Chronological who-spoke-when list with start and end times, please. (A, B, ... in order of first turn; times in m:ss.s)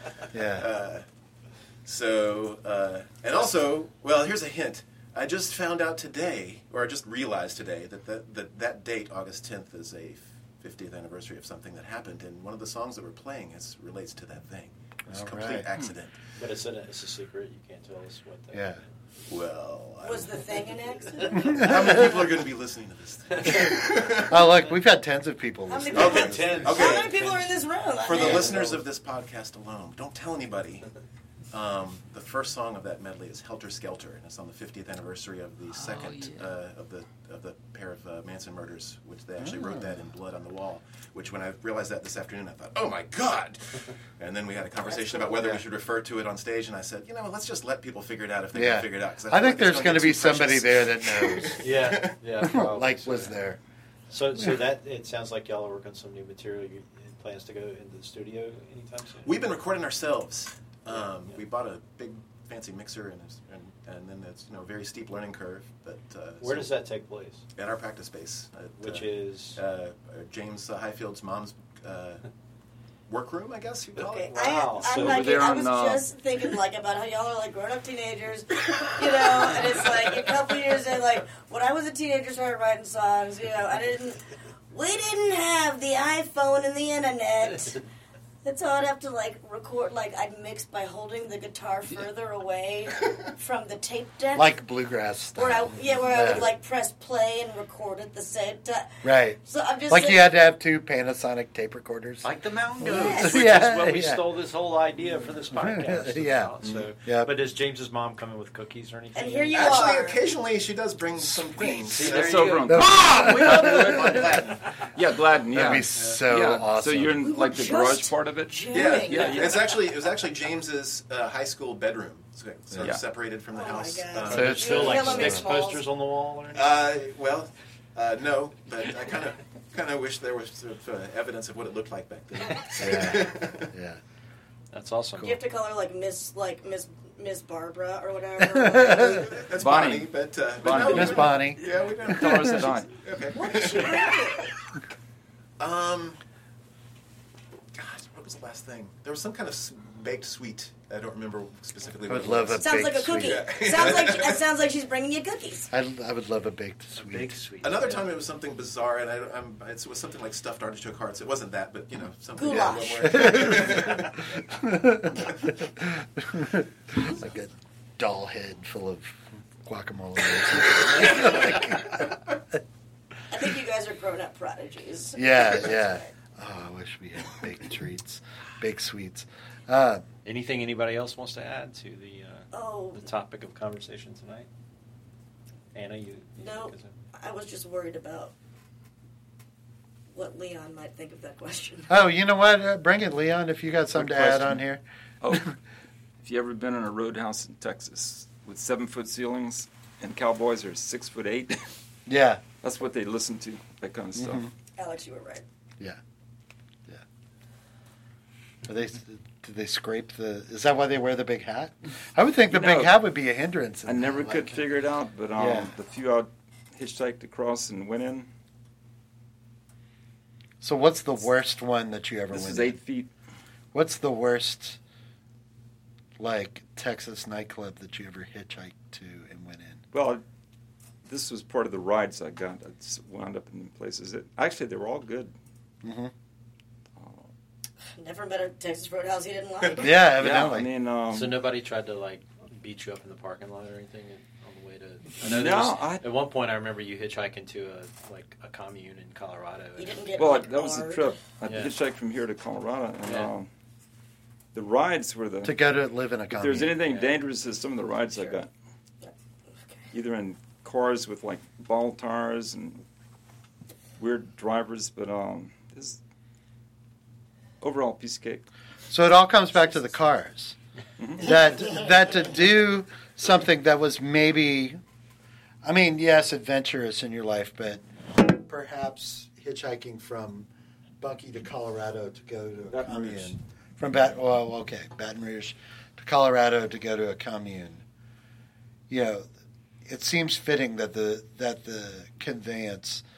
0:00.3-0:00.7 A
0:00.5-0:01.0 B
0:01.8-0:16.2 B
0:15.1-0:15.7 A
0:16.4-0:18.8 C
0:18.5-0:18.8 A
0:19.3-0:20.5 B
0:20.0-0:21.9 D
0:21.4-0:22.0 A
0:21.4-0:24.6 B
0:23.3-0:23.8 C
0:24.3-0:26.7 A
0:25.7-0:28.6 D
0:25.9-0:27.2 B
0:26.0-0:28.8 C
0:28.0-0:30.9 B
0:31.5-0:52.2 B
0:39.4-0:39.8 A
0:45.3-0:45.6 A
0:48.5-0:51.7 A
0:51.6-0:53.4 C
0:52.4-0:53.6 A
0:54.1-0:59.4 C
0:59.2-1:06.7 B
1:00.9-1:01.4 C
1:06.4-1:07.4 C
1:07.6-1:12.2 B
1:08.8-1:09.6 C
1:13.1-1:14.6 B
1:14.0-1:27.8 D
1:14.2-1:15.4 C
1:14.9-1:16.1 E
1:28.4-1:34.5 D
1:34.3-1:36.5 A
1:35.4-1:40.2 D
1:39.0-1:39.4 A
1:39.9-1:42.3 A
1:42.2-1:49.9 C
1:42.8-1:44.2 A
1:42.9-1:43.4 D
1:45.4-1:46.5 A
1:47.0-1:47.3 A
1:49.2-1:50.3 D
1:49.5-1:52.6 B
1:51.6-1:54.4 C
1:52.0-1:59.6 E
1:52.7-1:54.3 A
1:54.0-1:54.5 B
1:55.5-1:57.3 A
1:57.2-1:59.8 D
1:58.7-2:05.0 B
2:03.5-2:05.8 D
2:04.1-2:06.6 C
2:04.3-2:05.5 A
2:06.5-2:13.7 B
2:12.8-2:14.0 A
2:14.7-2:15.4 C
2:15.2-2:19.4 D
2:18.4-2:19.2 A
2:18.9-2:24.4 B
2:19.6-2:22.9 E
2:20.8-2:22.6 A
2:23.3-2:24.5 D
2:25.6-2:26.2 B
2:27.8-2:34.4 B
2:32.1-2:33.4 A
2:32.6-2:35.7 D
2:35.7-2:37.4 A
2:37.0-2:38.1 C
2:37.6-2:44.4 B
2:42.4-2:43.3 D
2:42.5-2:52.2 A
2:45.2-2:45.5 B
2:53.3-2:56.1 D
2:55.2-3:00.0 A
3:00.2-3:04.5 C
3:02.5-3:03.0 D
3:05.7-3:06.9 C
3:06.4-3:08.3 D
3:10.1-3:11.9 D
3:11.9-3:15.5 A
3:13.9-3:14.6 E
3:15.2-3:15.5 E
3:16.2-3:21.7 E
3:22.1-3:22.4 A
3:22.6-3:24.5 E
3:24.2-3:24.5 A
3:24.8-3:25.4 D
3:28.6-3:34.6 A
3:32.5-3:32.9 E
3:33.9-3:38.3 E
3:35.4-3:35.7 A
3:40.6-3:42.8 A
3:42.3-3:43.1 E
3:43.7-3:44.8 A
3:46.2-3:49.8 A
3:49.9-3:50.2 E
3:51.1-3:55.3 E
3:55.8-3:56.1 A
3:57.0-3:57.3 E
3:58.0-4:00.1 D
3:59.8-4:00.7 A
4:00.2-4:01.4 E
4:01.1-4:10.0 C
4:05.2-4:06.0 E
4:09.8-4:11.1 D
4:10.2-4:13.5 E
4:11.5-4:11.7 C
4:13.0-4:13.3 C
4:14.5-4:15.6 E
4:15.4-4:16.8 A
4:16.3-4:18.5 E
4:16.9-4:17.1 C
4:19.9-4:22.8 E
4:24.0-4:26.0 E
4:27.6-4:28.4 E
4:28.9-4:30.6 A
4:31.0-4:31.3 E
4:31.2-4:34.8 A
4:35.6-4:40.5 A
4:41.0-4:47.8 A
4:42.7-4:43.3 E
4:48.9-4:49.3 A
4:49.9-4:53.0 A